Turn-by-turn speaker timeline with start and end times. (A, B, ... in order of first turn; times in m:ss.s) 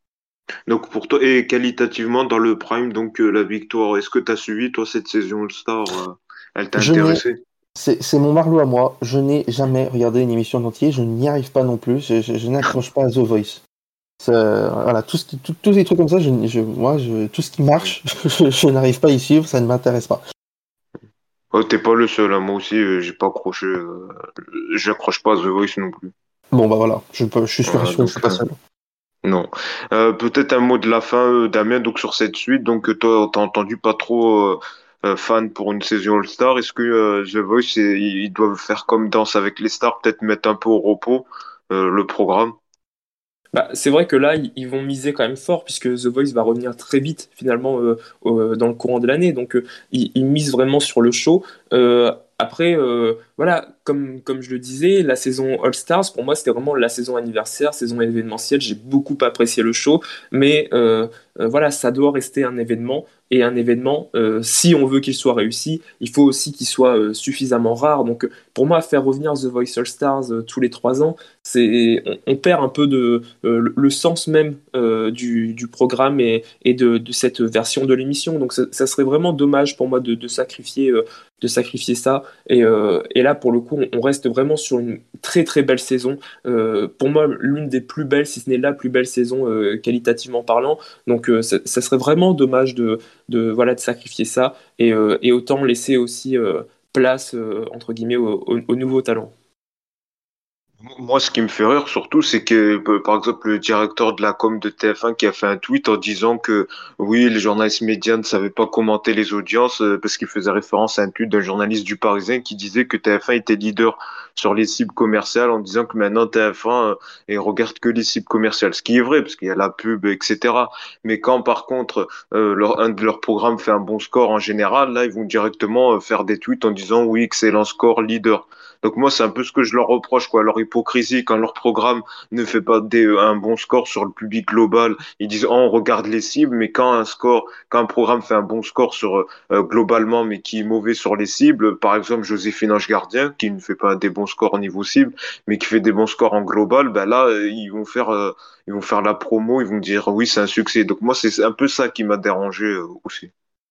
0:00.7-0:07.4 A
0:06.8-0:07.2 B
0:07.8-0:13.6 B
0:14.2-0:20.2 B
0:21.5-0:26.1 A
0:26.5-0:28.6 B
0:27.7-0:28.4 A
0:29.2-0:42.6 A
0:43.5-1:39.3 C
1:40.8-2:33.3 A